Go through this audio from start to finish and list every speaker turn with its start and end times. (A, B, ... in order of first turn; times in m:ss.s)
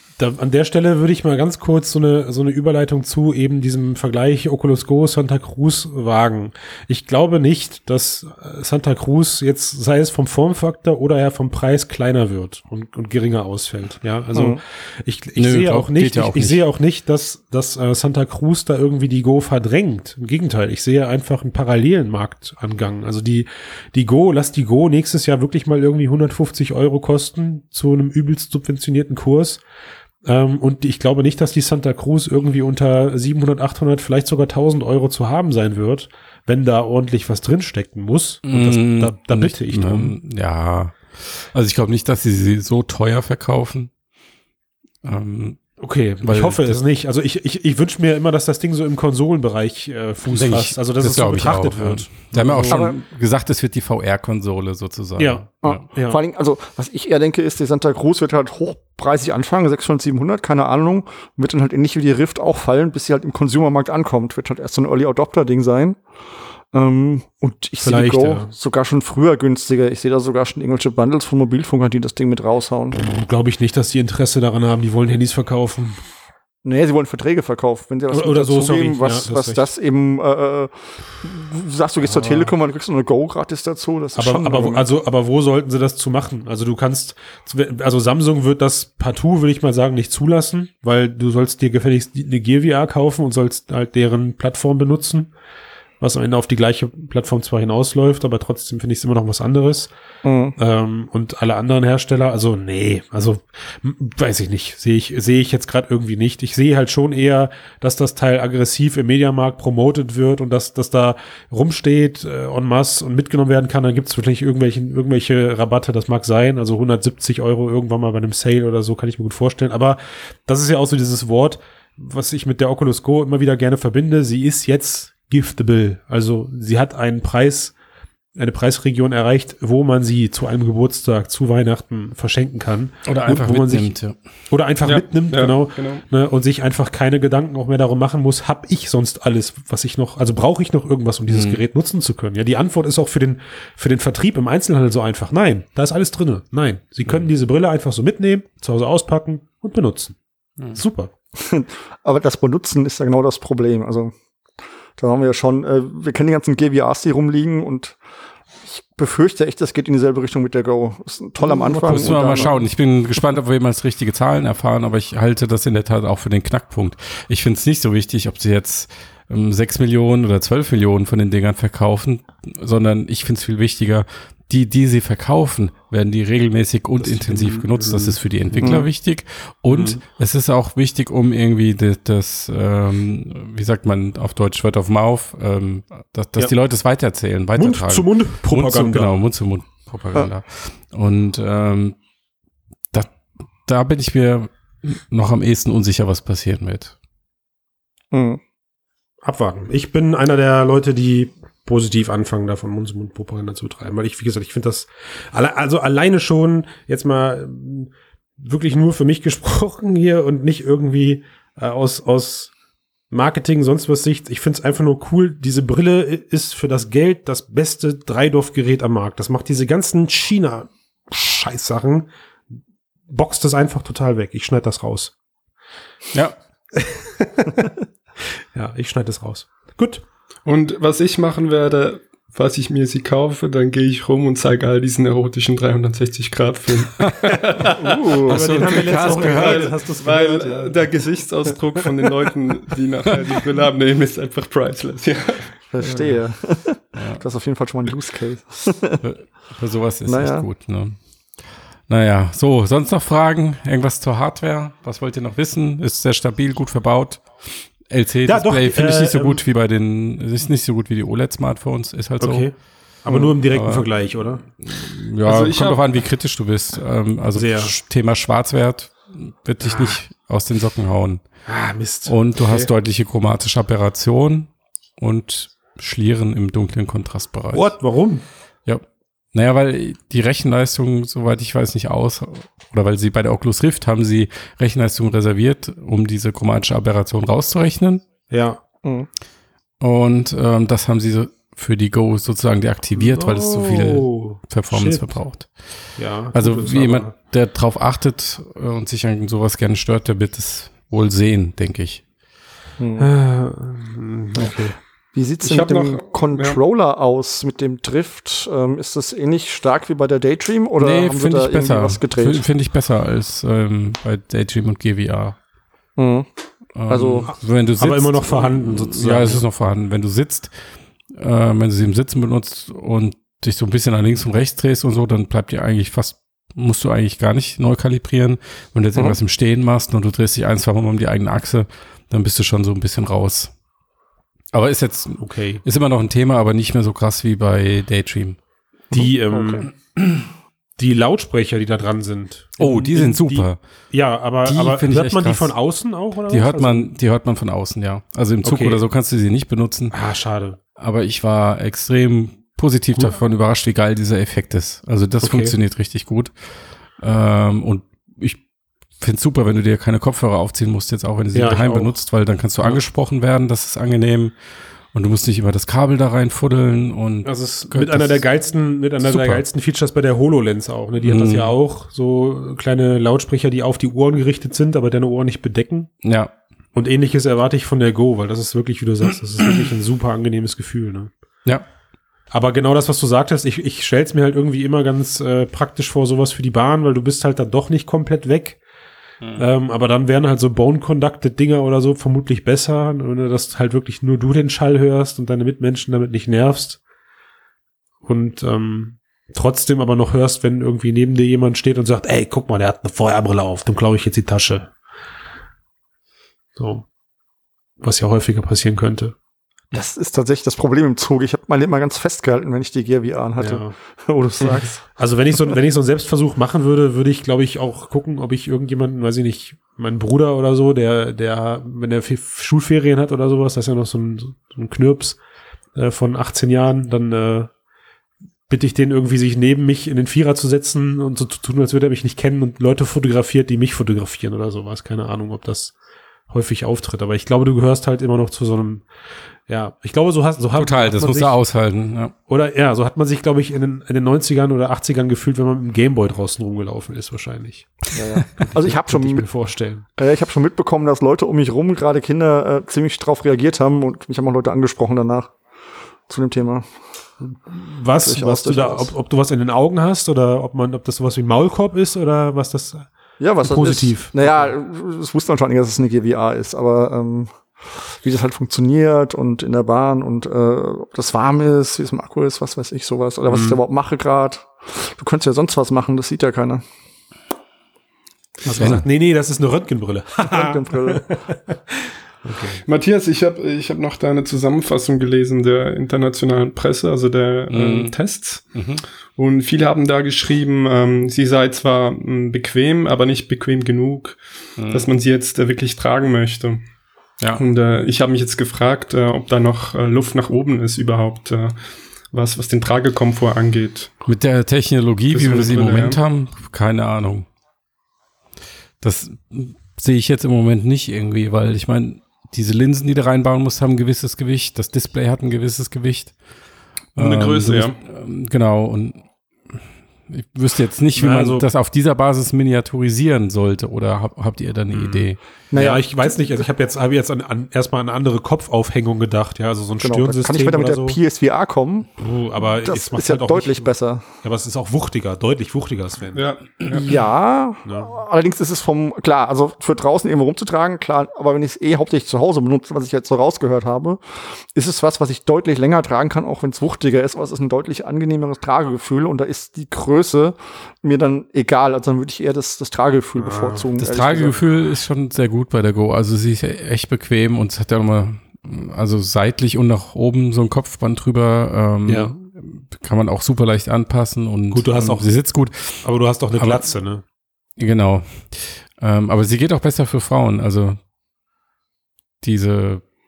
0:00.2-0:29.6 A
0:14.3-0:14.6 B
0:15.4-0:16.6 C
0:30.2-0:40.2 A
0:38.4-0:43.9 C
0:45.0-0:45.7 C
0:45.8-0:52.8 A
0:46.2-0:46.8 C
0:50.3-0:55.8 C
0:52.6-0:53.0 B
0:55.2-0:56.2 A
0:55.6-1:06.0 B
1:06.7-1:13.0 B
1:07.8-1:08.5 A
1:12.9-1:16.0 A
1:16.6-1:24.8 B
1:18.1-1:19.7 A
1:22.0-1:22.5 A
1:24.1-1:35.3 A
1:36.0-1:39.9 A
1:40.2-1:40.6 B
1:40.6-2:07.7 A
2:08.4-2:13.9 A
2:13.0-2:14.2 C
2:14.5-2:30.2 A
2:14.8-2:16.0 D
2:21.3-2:21.6 C
2:30.7-2:31.1 A
2:31.4-2:34.1 B
2:35.0-2:38.0 B
2:38.6-2:42.5 B
2:41.4-2:42.6 A
2:41.8-3:12.0 C
2:57.0-2:58.8 A
2:58.6-2:58.9 B
2:59.7-3:00.0 A
3:07.6-3:09.2 A
3:13.6-3:16.9 C
3:18.1-3:18.4 B
3:19.2-3:32.5 A
3:33.1-3:42.1 A
3:43.1-3:45.1 A
3:46.7-3:47.7 A
3:48.4-3:50.0 A
3:50.4-3:57.9 D
3:57.0-3:59.7 C
3:57.8-3:58.6 B
3:58.2-4:00.9 A
3:58.6-4:05.6 D
4:05.7-4:09.0 B
4:05.8-4:06.1 A
4:06.9-4:07.2 C
4:09.0-4:11.0 C
4:10.0-4:10.5 B
4:11.9-4:22.5 C
4:18.2-4:19.4 A
4:22.2-4:24.4 A
4:23.2-4:24.0 C
4:24.6-4:31.2 C
4:25.2-4:25.9 D
4:27.3-4:27.7 A
4:29.6-4:30.0 A
4:31.4-4:32.7 A
4:32.0-4:37.7 C
4:37.5-4:38.2 A
4:38.6-4:48.0 C
4:48.3-4:48.6 A
4:49.8-4:55.7 C
4:53.0-4:55.2 A
4:56.0-4:57.1 A
4:56.3-5:02.0 C
5:02.8-5:03.1 B
5:03.0-5:04.8 A
5:05.1-5:12.4 B
5:05.4-5:06.6 D
5:10.8-5:15.4 C
5:16.0-5:16.3 B
5:16.8-5:20.5 C
5:16.9-5:17.3 B
5:17.3-5:19.4 A
5:21.1-5:33.5 C
5:34.5-5:38.4 C
5:35.2-5:35.6 A
5:38.9-5:39.7 B
5:38.9-5:40.2 A
5:40.8-5:46.9 A
5:42.6-5:43.6 C
5:44.4-5:45.5 C
5:46.3-5:50.0 C
5:48.4-5:48.8 A
5:49.9-5:50.6 A
5:50.8-5:56.3 C
5:55.2-5:55.5 A
5:57.0-5:58.4 C
5:59.0-6:04.3 C
6:01.3-6:01.9 A
6:04.9-6:08.2 C
6:07.2-6:15.9 A
6:09.0-6:09.4 C
6:11.0-6:11.5 C
6:16.0-6:16.3 C
6:16.7-6:21.1 A
6:22.3-6:28.6 A
6:29.4-6:36.8 A
6:38.0-6:44.7 A
6:46.6-6:46.8 A
6:47.8-6:49.1 A
6:49.7-6:54.8 B
6:53.4-6:53.7 A
6:54.9-7:05.2 A
7:05.7-7:07.5 A
7:08.5-7:15.8 A
7:16.3-7:18.8 A
7:19.5-7:21.4 A
7:20.5-7:22.1 C
7:22.3-7:29.8 A
7:27.9-7:29.2 B
7:30.0-7:35.4 B
7:36.1-7:36.7 B
7:37.2-7:42.9 A
7:38.0-7:38.9 B
7:43.2-7:56.6 B
7:43.4-7:44.5 A
7:53.3-7:53.6 A
7:58.4-8:02.6 A
7:58.4-7:58.8 C
8:00.2-8:01.2 B
8:02.6-8:08.5 D
8:07.5-8:07.9 C
8:08.5-8:08.8 C
8:09.2-8:16.6 D
8:14.6-8:14.9 C
8:17.4-8:21.6 D
8:22.1-8:23.9 D
8:24.0-8:27.3 C
8:25.1-8:26.0 D
8:28.8-8:36.2 C
8:36.9-8:45.2 C
8:37.0-8:37.8 D
8:40.9-8:41.5 A
8:44.7-8:51.0 A
8:45.5-8:46.4 B
8:49.8-8:51.9 B
8:52.0-8:57.0 A
8:52.6-8:54.0 B
8:56.1-8:56.9 D
8:56.8-9:14.4 B
8:57.6-8:57.9 A
9:13.2-9:13.7 A
9:13.8-9:26.7 C
9:21.9-9:22.1 A
9:24.5-9:25.2 A
9:25.8-9:27.0 A
9:27.6-9:30.8 C
9:32.2-9:32.9 C